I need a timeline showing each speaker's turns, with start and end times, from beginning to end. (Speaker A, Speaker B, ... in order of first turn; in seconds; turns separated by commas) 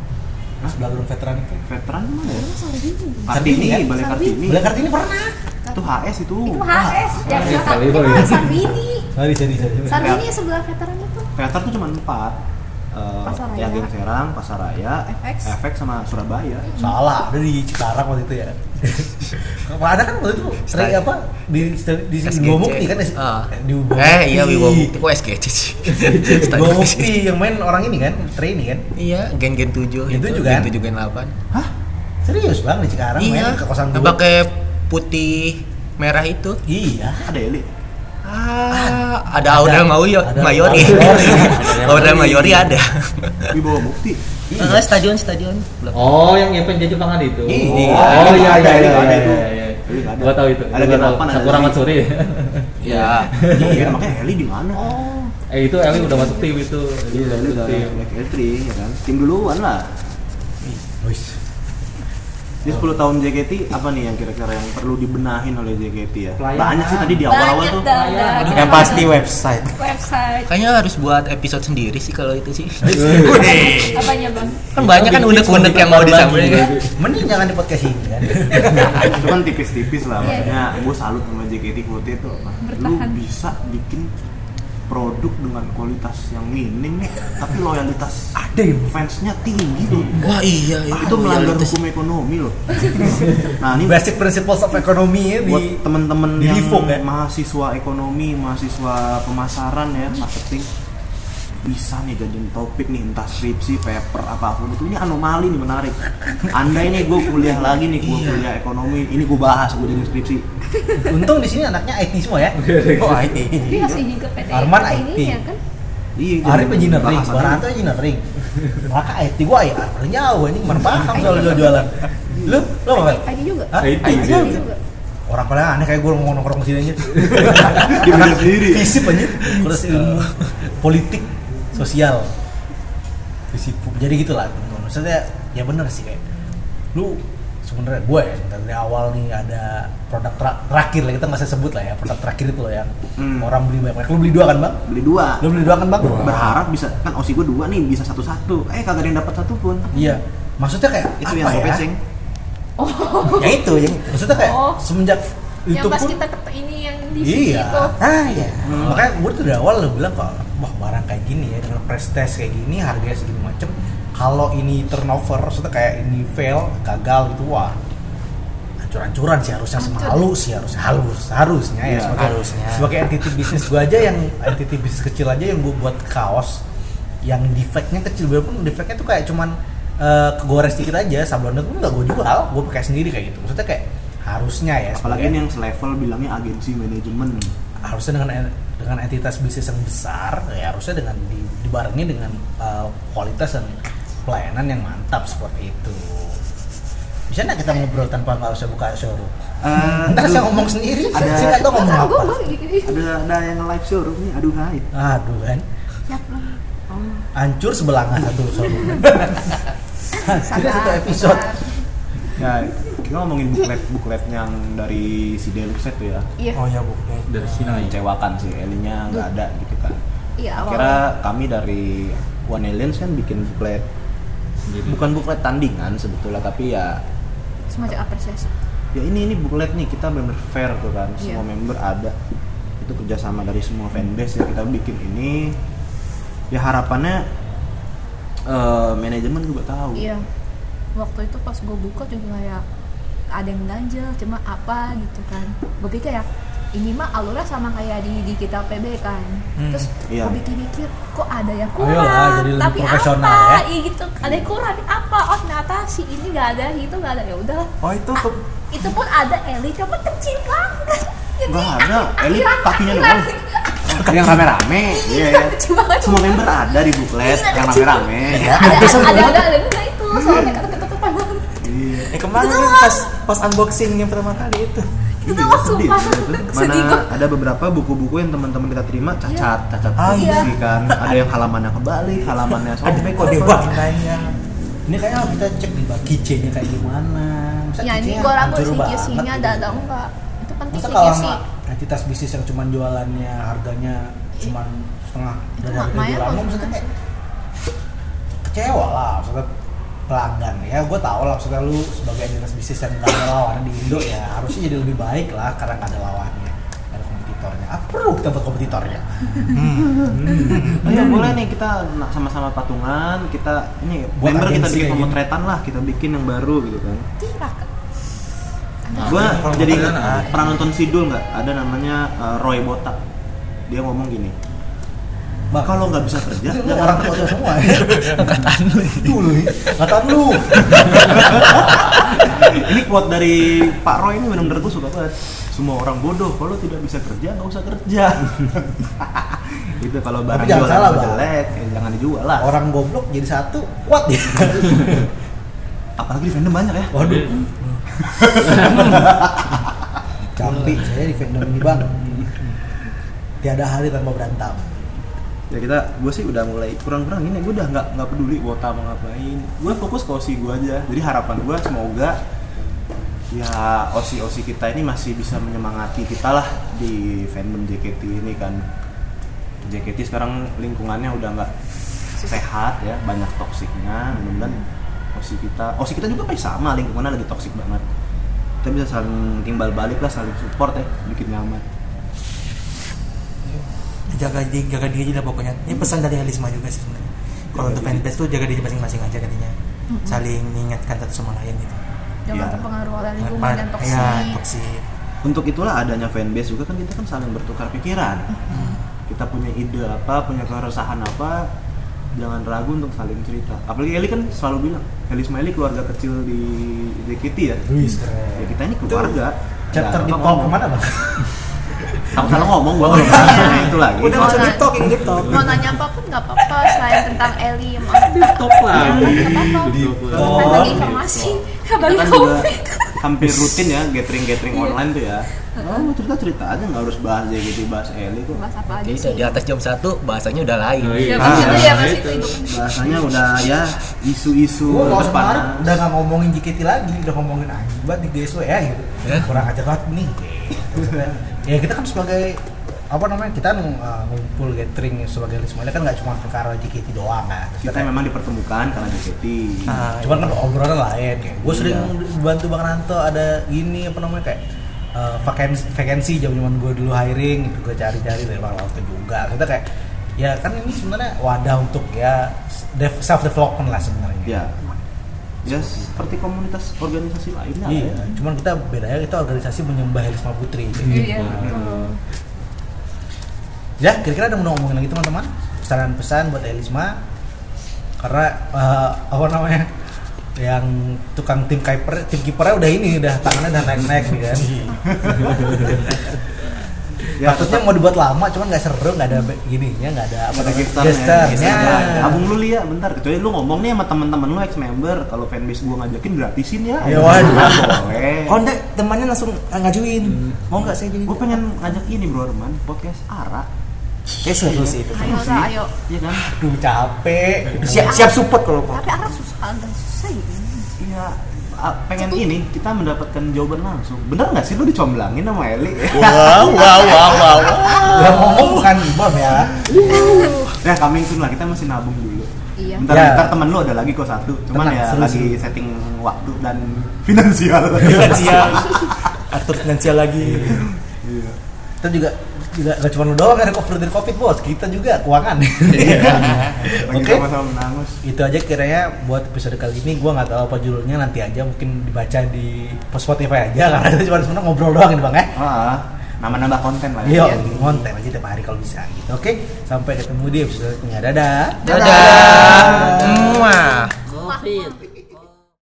Speaker A: 0.6-1.6, Speaker B: 1.7-2.5, Speaker C: 2.2-4.4, Speaker B: 3.3-4.7, Speaker A: 3.3-5.3, Speaker C: 5.7-9.1, Speaker B: 5.7-6.7, Speaker A: 6.7-7.5, Speaker D: 7.2-8.6, Speaker A: 9.2-10.2, Speaker B: 9.9-10.3, Speaker C: 9.9-11.3, Speaker B: 11.4-12.4, Speaker B: 12.9-16.7, Speaker C: 13.3-13.9, Speaker C: 15.1-15.6, Speaker C: 16.6-17.0, Speaker A: 16.8-25.0, Speaker E: 20.6-21.0, Speaker E: 22.2-27.2, Speaker A: 25.9-28.8, Speaker E: 29.0-31.4, Speaker A: 30.1-30.7, Speaker A: 32.2-34.2, Speaker E: 33.2-36.6, Speaker A: 36.7-37.3, Speaker B: 37.2-37.7, Speaker E: 38.2-43.5, Speaker A: 38.7-42.0, Speaker F: 41.4-41.8, Speaker B: 41.5-42.2, Speaker B: 43.5-44.2, Speaker A: 44.5-44.9, Speaker E: 44.6-46.1, Speaker D: 45.9-52.7, Speaker A: 47.5-48.7, Speaker B: 47.5-51.8, Speaker E: 47.7-48.2, Speaker E: 52.8-53.4, Speaker B: 52.9-54.9, Speaker D: 53.4-53.8, Speaker A: 53.6-54.0, Speaker C: 54.8-55.3, Speaker D: 55.5-58.0, Speaker C: 55.9-56.5, Speaker B: 57.1-59.9, Speaker A: 61.0-61.4, Speaker B: 62.6-67.9, Speaker D: 66.4-67.3, Speaker C: 67.3-69.1, Speaker D: 67.9-69.1, Speaker F: 68.4-69.8, Speaker C: 69.8-70.5, Speaker E: 70.5-73.9, Speaker A: 73.0-73.4, Speaker F: 73.1-74.1, Speaker C: 73.9-74.6, Speaker E: 74.7-76.9, Speaker D: 74.8-76.9, Speaker F: 75.0-76.3, Speaker A: 77.0-78.6, Speaker B: 79.1-84.1, Speaker C: 80.2-80.5, Speaker C: 82.6-83.2, Speaker B: 84.9-88.3, Speaker F: 88.4-89.0, Speaker B: 88.8-94.0, Speaker E: 90.2-91.8, Speaker A: 93.8-97.0, Speaker B: 95.4-100.7, Speaker B: 101.6-110.4, Speaker F: 108.0-108.5, Speaker C: 110.8-111.1, Speaker A: 111.0-112.6, Speaker D: 112.6-113.5, Speaker F: 113.0-113.8, Speaker B: 113.6-114.0, Speaker C: 113.7-115.6, Speaker A: 114.5-115.4, Speaker B: 116.2-117.6, Speaker A: 116.4-118.2, Speaker A: 118.8-124.6, Speaker C: 121.1-121.8, Speaker B: 122.3-122.7, Speaker C: 122.9-124.8, Speaker D: 123.8-124.6, Speaker A: 125.3-132.3, Speaker B: 127.5-129.6, Speaker A: 133.5-136.2, Speaker A: 136.9-144.8, Speaker B: 143.2-143.5, Speaker B: 144.9-145.4, Speaker A: 145.4-146.6, Speaker F: 146.1-146.4, Speaker B: 146.1-149.9, Speaker C: 149.9-150.2, Speaker A: 149.9-151.8, Speaker B: 151.2-152.0, Speaker C: 152.8-153.6, Speaker F: 153.3-154.3, Speaker A: 153.5-156.2, Speaker C: 154.3-154.8, Speaker C: 155.7-157.9, Speaker A: 157.2-167.8, Speaker F: 158.1-158.8, Speaker B: 158.6-159.0, Speaker A: 168.8-176.6, Speaker C: 169.8-170.3, Speaker B: 171.8-172.4, Speaker F: 172.1-173.7, Speaker A: 177.2-185.4, Speaker B: 184.9-187.5, Speaker A: 187.8-193.7, Speaker A: 194.2-196.4, Speaker A: 197.3-202.5, Speaker B: 199.6-201.8, Speaker C: 201.3-202.9, Speaker B: 202.8-204.9, Speaker A: 204.9-205.7, Speaker C: 206.1-207.2, Speaker A: 207.3-209.3, Speaker C: 210.2-211.8, Speaker A: 210.2-211.6, Speaker B: 212.3-216.3, Speaker F: 216.6-217.8, Speaker D: 217.3-218.0, Speaker B: 217.8-220.0, Speaker C: 220.4-221.0, Speaker B: 220.6-223.8, Speaker D: 224.7-225.1, Speaker B: 224.8-227.0, Speaker C: 227.7-228.5, Speaker B: 228.9-232.2, Speaker B: 232.8-235.5, Speaker B: 236.5-237.2, Speaker B: 238.5-240.1, Speaker C: 239.9-240.3, Speaker C: 241.0-242.6, Speaker C: 243.3-263.9, Speaker F: 249.6-249.9, Speaker B: 250.1-250.4, Speaker A: 251.8-253.7, Speaker F: 257.8-258.4, Speaker B: 261.5-263.3, Speaker B: 263.9-269.4, Speaker F: 264.0-264.4, Speaker C: 264.8-271.6, Speaker F: 268.3-269.5, Speaker B: 271.6-272.1, Speaker F: 272.1-274.9, Speaker C: 272.2-273.1, Speaker C: 275.2-277.1, Speaker B: 275.2-283.6, Speaker C: 279.3-279.5, Speaker F: 280.0-281.3, Speaker C: 280.1-280.5, Speaker F: 282.5-284.3, Speaker C: 283.2-283.8, Speaker A: 284.9-289.9, Speaker C: 287.8-291.4, Speaker A: 290.7-296.8, Speaker C: 295.6-296.9, Speaker A: 298.4-299.5, Speaker A: 300.1-309.5, Speaker F: 309.5-311.3, Speaker B: 309.8-317.1, Speaker D: 310.1-310.6, Speaker A: 314.2-315.2, Speaker C: 317.2-317.7, Speaker C: 318.9-319.4, Speaker B: 318.9-323.0, Speaker F: 319.0-320.7, Speaker D: 319.1-320.3, Speaker B: 323.7-324.4, Speaker A: 325.5-328.2, Speaker B: 325.6-327.5, Speaker F: 327.6-329.7, Speaker A: 329.0-331.9, Speaker B: 330.8-342.5, Speaker A: 340.3-341.3, Speaker A: 342.4-345.1, Speaker B: 346.0-347.2, Speaker A: 346.9-347.7, Speaker D: 347.0-347.3, Speaker B: 348.1-349.6, Speaker D: 348.4-348.8, Speaker A: 348.5-349.5, Speaker A: 350.4-352.0, Speaker F: 350.4-350.8, Speaker A: 353.4-355.1, Speaker B: 355.5-362.2, Speaker B: 363.3-368.6, Speaker B: 369.6-371.5, Speaker B: 372.2-374.6, Speaker C: 374.2-374.7, Speaker B: 375.1-377.9, Speaker B: 378.6-381.6, Speaker F: 383.5-389.5, Speaker B: 387.6-388.1, Speaker C: 389.9-390.2, Speaker F: 390.1-391.8, Speaker C: 392.3-394.4, Speaker B: 392.3-392.6, Speaker F: 393.2-394.8, Speaker B: 395.2-398.5, Speaker C: 398.4-398.8, Speaker F: 398.5-398.8, Speaker B: 399.1-401.5, Speaker B: 402.1-407.7, Speaker A: 407.7-409.1, Speaker B: 408.4-410.6, Speaker A: 409.7-411.0, Speaker B: 412.1-414.6, Speaker A: 412.8-413.8, Speaker F: 412.9-415.8, Speaker C: 413.1-423.0, Speaker D: 415.1-415.5, Speaker F: 416.6-417.0, Speaker D: 418.0-421.4, Speaker B: 418.7-419.6, Speaker A: 418.9-419.2, Speaker A: 419.7-420.9, Speaker B: 421.8-428.4, Speaker C: 424.5-424.8, Speaker C: 425.6-425.9, Speaker C: 428.3-429.4, Speaker E: 428.8-431.4, Speaker D: 430.8-432.4, Speaker C: 431.1-433.4, Speaker F: 431.2-431.9, Speaker B: 432.4-435.8, Speaker A: 434.6-447.9, Speaker B: 447.6-449.9, Speaker F: 449.7-450.4, Speaker A: 450.0-454.4, Speaker B: 451.4-451.9, Speaker A: 454.9-459.7, Speaker A: 460.2-464.4, Speaker B: 464.3-464.6, Speaker B: 465.4-468.0, Speaker A: 465.5-465.8, Speaker A: 467.6-471.5, Speaker C: 470.9-472.0, Speaker D: 470.9-471.9, Speaker B: 471.2-471.6, Speaker A: 473.8-477.0, Speaker A: 478.0-479.7, Speaker A: 480.4-484.5, Speaker F: 484.2-486.0, Speaker A: 485.2-485.7, Speaker B: 487.2-487.7, Speaker A: 487.2-492.3, Speaker B: 490.3-498.4, Speaker F: 491.3-492.2, Speaker A: 496.8-497.8, Speaker F: 497.0-497.7, Speaker F: 498.3-501.4, Speaker D: 500.0-500.4, Speaker B: 501.1-503.5, Speaker F: 504.2-505.3, Speaker B: 504.2-506.3, Speaker C: 504.9-505.7, Speaker A: 506.1-508.1, Speaker F: 507.6-508.9, Speaker C: 507.6-510.7, Speaker B: 510.8-518.3, Speaker C: 512.0-512.2, Speaker F: 515.9-518.5, Speaker C: 517.2-517.9, Speaker A: 517.9-519.6, Speaker C: 519.7-520.5, Speaker B: 519.7-529.2, Speaker F: 519.9-520.5, Speaker C: 522.6-522.9, Speaker A: 522.9-523.4, Speaker A: 524.5-525.4, Speaker F: 527.8-530.6, Speaker B: 530.3-531.4, Speaker A: 531.8-537.3, Speaker B: 535.7-538.0, Speaker F: 536.1-536.5, Speaker A: 538.0-545.3, Speaker B: 545.4-547.7, Speaker A: 547.0-553.4, Speaker E: 551.7-553.9, Speaker C: 552.1-552.6, Speaker B: 552.2-553.0, Speaker F: 552.5-552.9, Speaker C: 553.6-554.6, Speaker D: 554.1-555.1